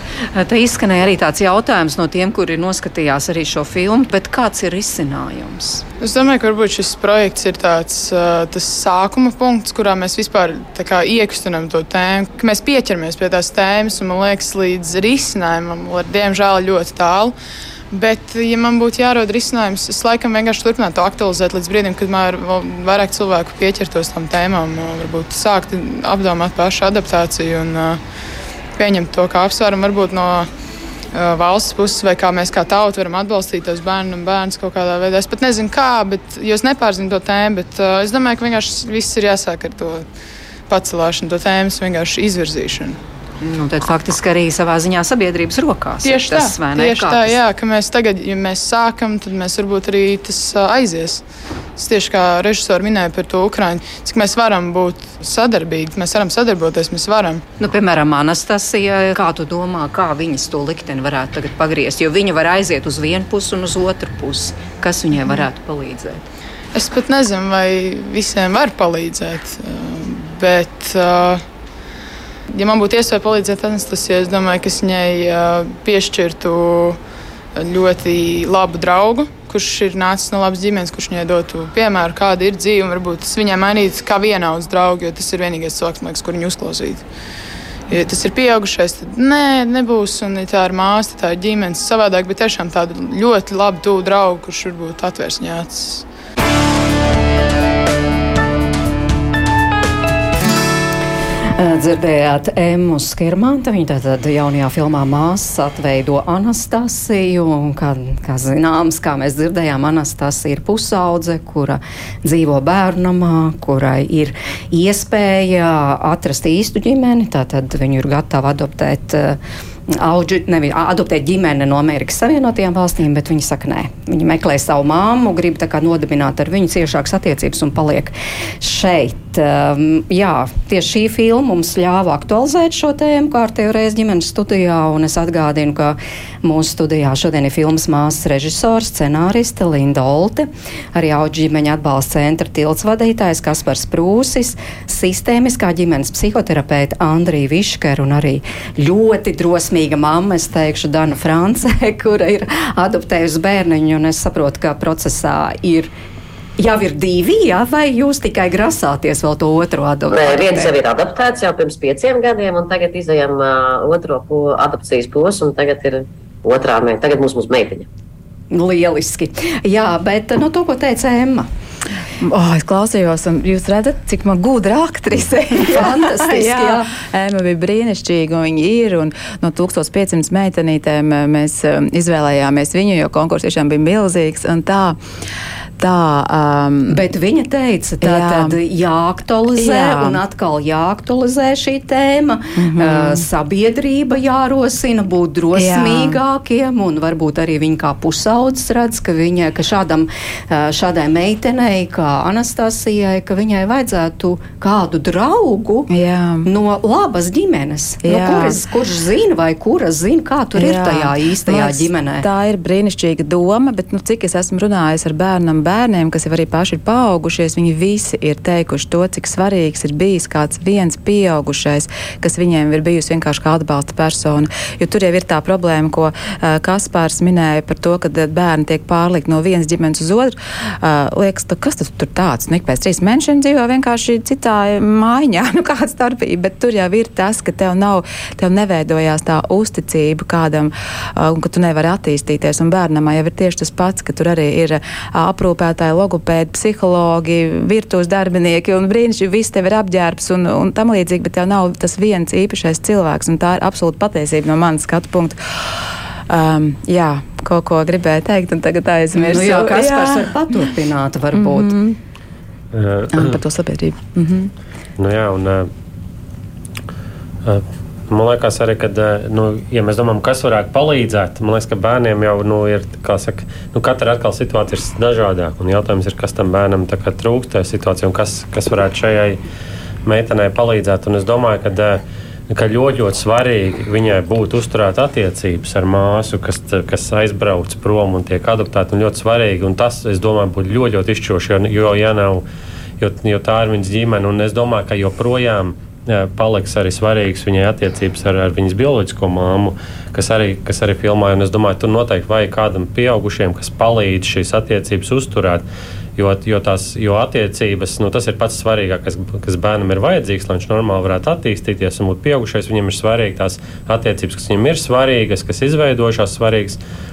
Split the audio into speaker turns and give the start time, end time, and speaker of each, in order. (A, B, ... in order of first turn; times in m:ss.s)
0:00.3-0:05.8 A
0:06.0-0:17.3 B
0:17.9-0:28.0 B
0:28.8-0:30.5 B
0:31.1-0:40.0 B
0:40.7-0:43.0 B
0:43.4-0:47.4 A
0:46.0-0:51.2 B
0:51.8-0:57.4 B
0:57.6-1:06.3 A
1:06.7-1:11.4 B
1:12.5-1:17.0 B
1:17.5-1:27.0 B
1:27.9-1:36.0 B
1:41.6-2:35.9 A
2:36.6-2:40.7 A
2:40.1-2:47.9 C
2:48.5-2:51.5 A
2:52.2-3:05.0 D
2:55.6-2:56.9 A
3:05.8-3:07.0 D
3:06.9-3:25.9 A
3:08.0-3:08.6 D
3:09.5-3:10.2 D
3:12.6-3:13.2 D
3:15.5-3:16.2 D
3:25.9-3:26.5 D
3:26.4-3:32.2 A
3:28.0-3:28.6 D
3:30.5-4:15.4 D
4:16.3-4:20.7 D
4:19.1-4:21.7 A
4:21.3-4:22.0 D
4:22.7-4:23.4 E
4:23.1-4:24.5 D
4:25.0-4:25.7 E
4:27.4-4:39.4 E
4:40.0-4:52.4 E
4:53.0-5:05.6 E
5:06.2-5:16.8 E